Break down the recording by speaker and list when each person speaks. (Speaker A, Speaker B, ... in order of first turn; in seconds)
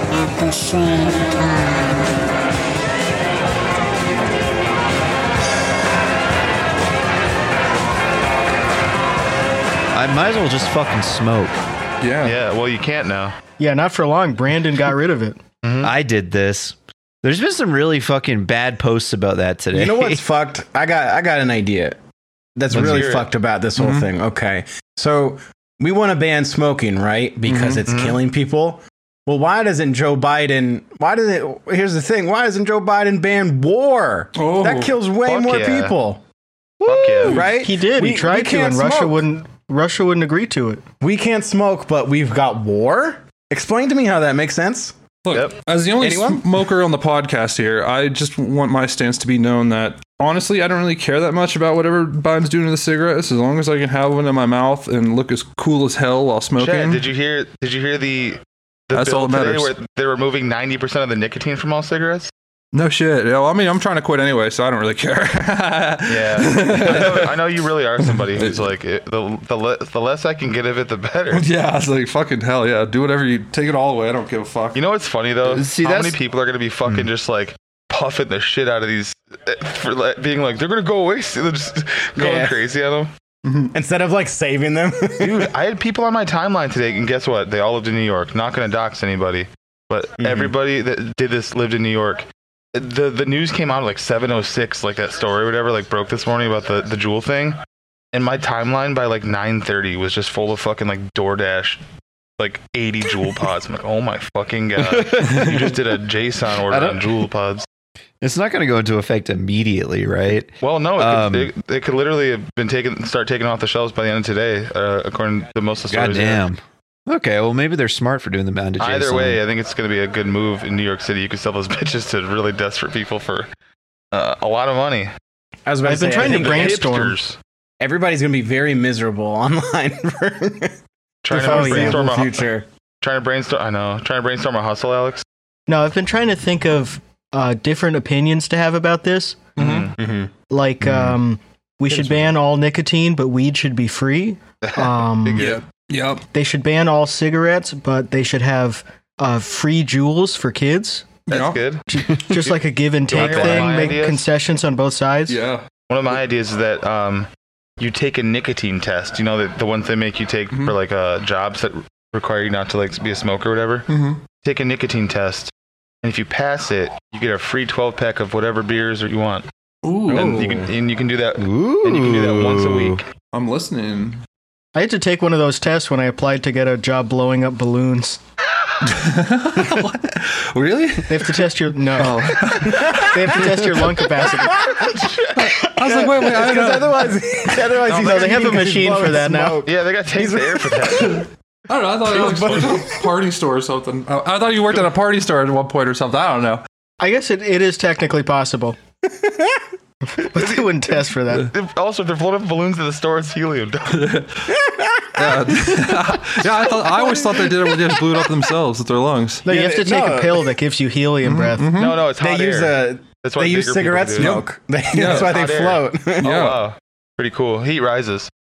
Speaker A: 0.3-2.3
Speaker B: 9.9-11.6, 15.8-20.2, 36.8-37.5, 75.5-76.2, 104.8-105.8, 106.7-107.1, 108.2-111.5, 115.9-119.4, 140.8-141.1, 152.1-152.4, 153.2-153.8, 171.4-173.0
Speaker C: 12.0-12.4, 23.8-24.1, 27.5-27.9, 34.4-35.0, 45.2-57.0, 58.9-59.7, 62.7-67.4, 68.4-68.6, 71.3-74.8, 83.5-83.7, 139.6-139.9, 145.4-146.2, 151.3-151.6, 155.3-155.7, 163.9-164.2, 169.8-170.5, 173.3-174.2, 178.9-183.4, 185.3-187.7, 190.9-196.6, 203.9-204.5, 205.2-209.4, 211.2-212.0, 214.2-215.5, 216.2-216.6
Speaker D: 12.2-13.3, 15.6-15.9, 22.7-23.3, 27.9-28.2, 35.2-35.9, 36.8-37.5, 56.6-62.3, 66.1-71.5, 74.8-83.1, 85.2-97.6, 98.1-101.8, 102.4-107.7, 110.6-116.4, 118.8-123.5, 124.1-125.1, 126.2-127.4, 131.2-132.5, 133.0-135.2, 139.6-139.9, 144.6-145.6, 151.3-151.8, 153.1-154.2, 155.9-157.3, 157.8-163.8, 164.4-165.5, 166.0-169.4, 170.2-173.1, 187.8-188.5, 189.6-191.2, 192.3-192.8, 200.3-204.2, 211.8-214.4, 215.0-218.3
Speaker E: 13.6-15.4, 37.5-40.8, 125.8-127.2, 131.3-132.1, 135.7-139.4, 140.5-145.4, 146.3-151.1, 151.9-155.4, 174.7-178.2, 181.1-182.2, 183.0-184.7, 188.0-189.6, 197.0-198.8, 200.1-201.5, 209.4-211.7
Speaker F: 19.7-22.0, 22.6-36.2, 37.2-39.2, 41.0-44.9, 46.0-46.4, 82.2-82.6, 83.7-85.5, 90.2-90.5, 125.7-127.0, 127.8-130.8, 131.3-132.7, 139.6-140.3, 141.9-142.3, 170.1-170.7, 182.7-183.5, 184.5-185.0, 185.8-191.2, 192.1-192.9, 199.0-199.6, 204.5-205.8, 206.5-208.3, 209.5-210.5, 212.1-216.4